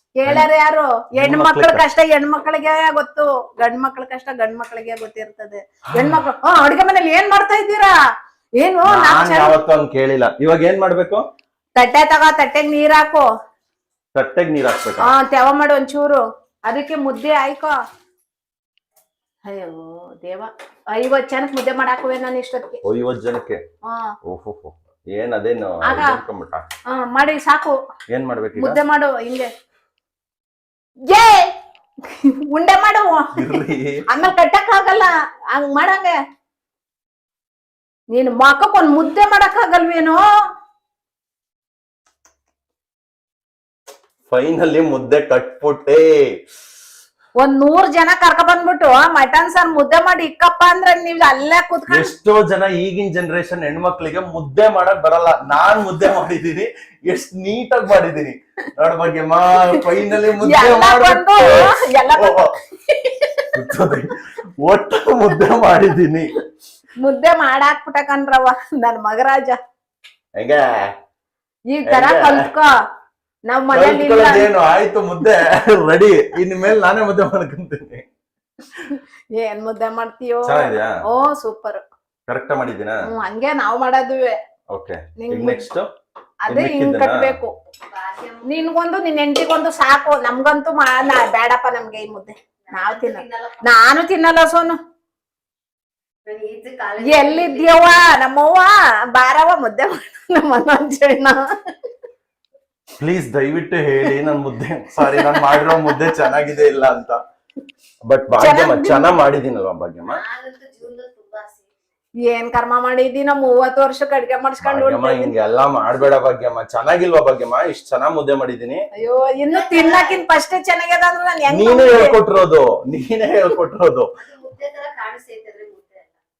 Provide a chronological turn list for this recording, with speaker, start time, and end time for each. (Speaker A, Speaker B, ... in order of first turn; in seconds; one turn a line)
Speaker A: 0.2-7.9
Speaker B: 1.2-1.8
Speaker A: 8.6-9.6
Speaker B: 8.9-11.2
Speaker A: 11.8-13.3
Speaker B: 14.2-15.1
Speaker A: 15.1-17.8
Speaker A: 19.5-22.8
Speaker B: 22.8-23.6
Speaker A: 23.9-24.1
Speaker B: 24.2-26.6
Speaker A: 26.9-27.8
Speaker B: 28.1-28.8
Speaker A: 28.6-29.5
Speaker A: 31.1-31.5
Speaker A: 32.0-36.2
Speaker B: 33.4-34.1
Speaker A: 38.1-40.2
Speaker B: 44.3-46.1
Speaker A: 47.4-52.1
Speaker B: 51.9-62.5
Speaker A: 60.4-63.5
Speaker B: 63.5-66.3
Speaker A: 67.0-69.6
Speaker B: 70.4-70.9
Speaker A: 71.7-72.7
Speaker B: 71.8-72.5
Speaker A: 73.5-74.5
Speaker B: 73.7-78.1
Speaker A: 79.4-81.8
Speaker B: 80.5-80.9
Speaker B: 82.3-83.0
Speaker A: 83.1-84.4
Speaker B: 84.7-85.9
Speaker A: 85.2-85.6
Speaker A: 86.5-87.5
Speaker B: 86.5-87.4
Speaker C: 87.9-88.6
Speaker A: 88.5-94.8
Speaker C: 92.7-93.8
Speaker C: 96.3-97.9
Speaker A: 97.0-101.4
Speaker B: 103.0-107.2
Speaker A: 105.0-106.2
Speaker B: 108.1-110.2
Speaker A: 108.4-109.1
Speaker C: 110.0-111.7
Speaker A: 112.3-115.4
Speaker B: 114.6-118.8
Speaker A: 119.0-122.2
Speaker C: 119.5-120.2
Speaker B: 121.5-124.1
Speaker C: 124.2-126.2